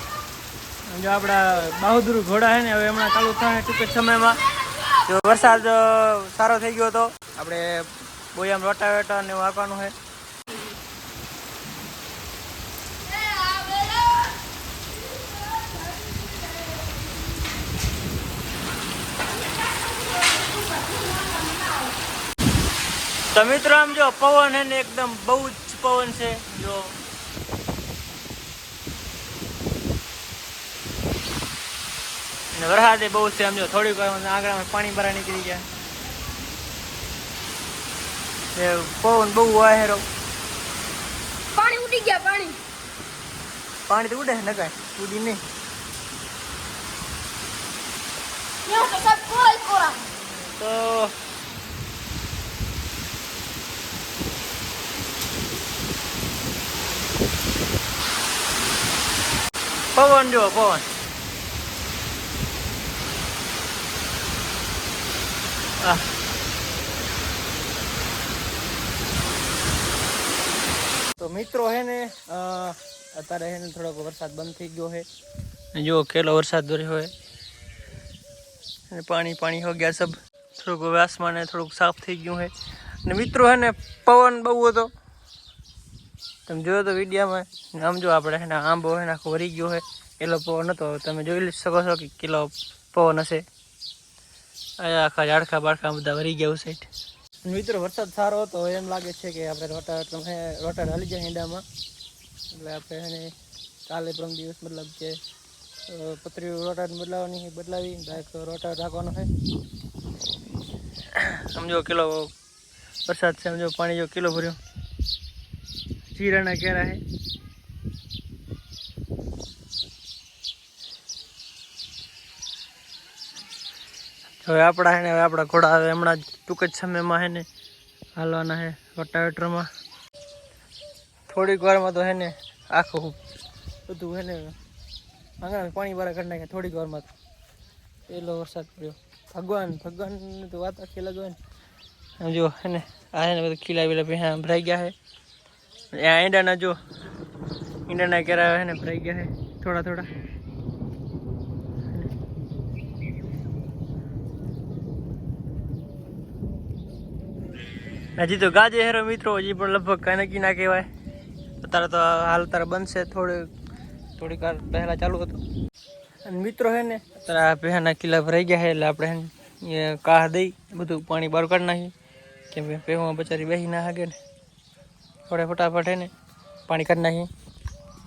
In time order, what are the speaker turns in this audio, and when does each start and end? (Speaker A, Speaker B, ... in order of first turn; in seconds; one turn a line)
Speaker A: 0.9-4.4
Speaker A: 4.9-9.9
Speaker B: 13.1-14.3
Speaker B: 19.9-21.9
Speaker A: 23.3-26.9
Speaker A: 32.5-35.6
Speaker A: 38.5-40.0
Speaker B: 41.5-42.6
Speaker A: 43.9-45.4
Speaker B: 48.6-50.0
Speaker A: 50.6-51.1
Speaker A: 59.9-60.8
Speaker A: 65.8-66.1
Speaker A: 71.2-75.0
Speaker A: 75.7-77.1
Speaker A: 78.9-82.5
Speaker A: 83.0-84.9
Speaker A: 86.5-93.4
Speaker A: 94.8-96.9
Speaker A: 97.4-101.6
Speaker A: 102.5-103.3
Speaker A: 103.9-105.2
Speaker A: 105.9-109.3
Speaker A: 111.1-112.3
Speaker A: 113.0-114.6
Speaker A: 116.1-117.0
Speaker A: 124.4-127.4
Speaker A: 128.2-129.7
Speaker A: 131.3-133.2
Speaker A: 133.9-134.5
Speaker A: 135.4-137.1
Speaker A: 138.1-141.4
Speaker A: 142.2-144.9
Speaker A: 145.9-146.8
Speaker A: 147.9-150.1
Speaker A: 158.2-160.8
Speaker A: 161.6-163.5
Speaker A: 164.2-165.4
Speaker A: 166.2-171.9
Speaker A: 172.5-174.2
Speaker A: 175.3-176.1
Speaker A: 176.7-177.3